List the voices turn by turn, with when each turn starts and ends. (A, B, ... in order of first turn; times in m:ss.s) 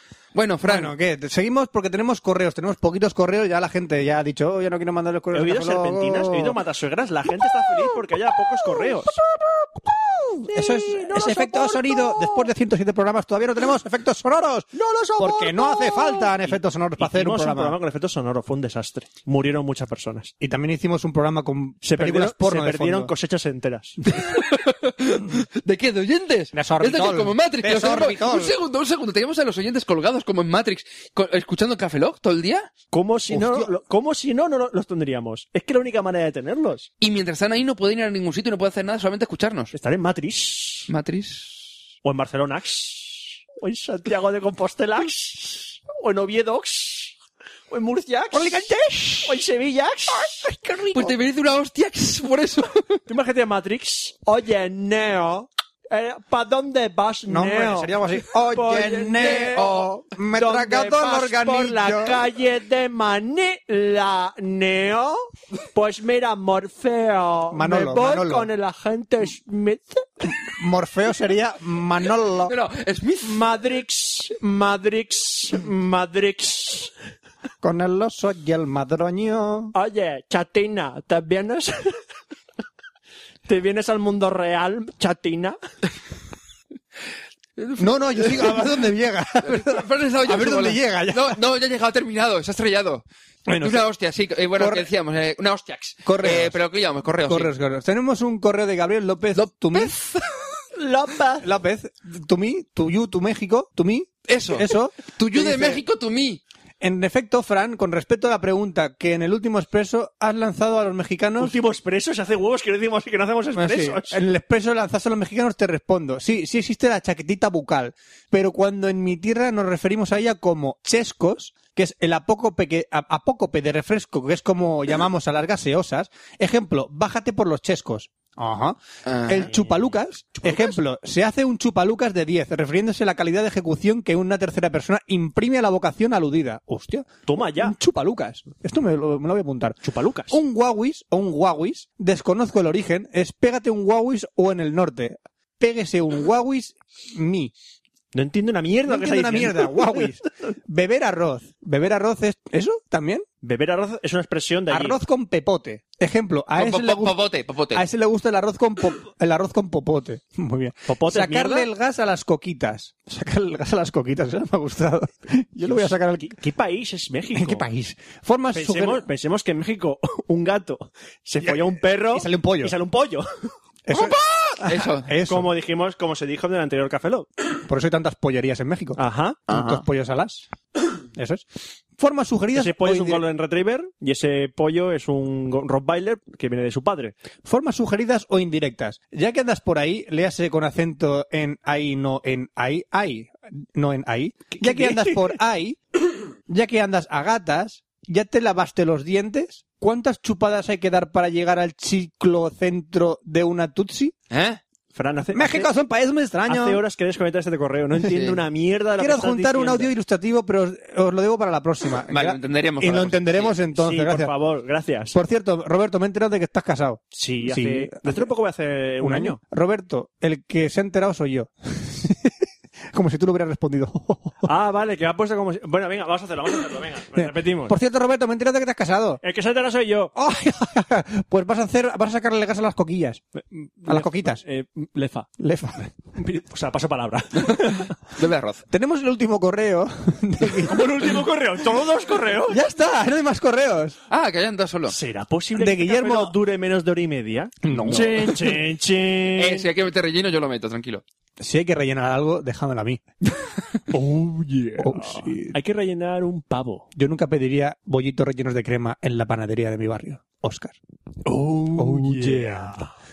0:00.3-0:00.9 A
0:00.6-0:06.6 B
0:05.3-0:09.1 C
0:08.6-0:14.7 B
0:10.5-0:12.5 C
0:14.7-0:20.3 C
0:15.2-0:17.8 B
0:20.4-0:23.1 B
0:21.8-0:24.2 C
0:24.1-0:32.7 A
0:26.5-0:28.5 B
0:32.9-0:36.9 C
0:33.3-0:33.7 B
0:37.0-0:39.7 A
0:39.7-0:40.9 C
0:40.9-0:41.6 A
0:42.0-0:47.2 C
0:47.7-0:48.6 C
0:48.3-0:49.3 B
0:49.2-0:50.4 C
0:50.3-0:51.1 B
0:50.9-0:53.0 A
0:53.1-1:05.2 C
0:57.3-1:02.2 B
1:05.7-1:10.3 C
1:07.5-1:08.5 B
1:10.4-1:12.5 B
1:12.4-1:13.4 A
1:13.2-1:16.9 C
1:17.6-1:19.7 B
1:19.7-1:21.9 C
1:23.5-1:25.6 C
1:27.6-1:28.7 A
1:27.8-1:31.4 B
1:29.4-1:33.0 A
1:33.5-1:33.8 B
1:33.6-1:37.5 A
1:34.6-1:34.9 B
1:36.0-1:36.6 B
1:37.3-1:40.0 B
1:39.3-1:40.6 A
1:40.7-1:41.5 C
1:41.4-1:45.8 B
1:44.3-1:46.4 A
1:46.8-1:51.6 B
1:51.4-1:54.2 C
1:53.6-2:19.8 B
2:09.0-2:09.5 A
2:09.5-2:10.8 C
2:17.3-2:17.7 C
2:19.8-2:20.4 C
2:20.3-2:27.5 B
2:28.1-2:30.1 C
2:28.8-2:33.2 B
2:33.4-2:35.0 C
2:34.7-2:37.2 B
2:36.6-2:37.8 A
2:37.7-2:46.4 B
2:40.9-2:41.7 C
2:45.6-2:47.6 C
2:47.3-2:49.0 B
2:48.5-2:53.5 C
2:51.4-2:52.7 B
2:53.8-2:55.5 B
2:53.9-2:55.1 A
2:55.3-2:57.3 C
2:57.6-3:00.4 B
2:59.0-2:59.4 C
2:59.5-2:59.8 A
3:01.2-3:01.4 B
3:02.0-3:03.2 B
3:02.5-3:07.2 C
3:07.4-3:15.8 B
3:14.5-3:15.4 C
3:16.5-3:24.1 B
3:24.3-3:24.6 A
3:24.9-3:25.7 C
3:25.3-3:26.8 B
3:26.5-3:29.9 C
3:28.1-3:28.4 A
3:29.0-3:34.3 B
3:32.1-3:33.6 A
3:33.7-3:35.2 C
3:35.1-3:38.2 B
3:37.1-3:39.4 C
3:39.0-3:42.4 B
3:42.9-3:44.5 B
3:44.4-3:47.8 C
3:47.2-3:49.2 B
3:49.2-3:50.1 C
3:50.1-3:53.2 B
3:53.4-3:55.3 C
3:53.8-3:54.4 B
3:55.4-3:55.9 B
3:56.1-3:57.9 C
3:58.1-3:58.6 A
3:58.7-4:01.1 B
4:00.5-4:02.6 C
4:02.5-4:04.0 B
4:04.1-4:04.9 A
4:04.9-4:09.7 C
4:05.6-4:06.3 B
4:07.6-4:08.6 B
4:07.7-4:08.1 A
4:09.4-4:11.0 A
4:11.4-4:13.0 B
4:13.9-4:16.9 C
4:14.8-4:15.5 B
4:16.9-4:20.8 B
4:21.2-4:22.9 C
4:21.7-4:22.8 B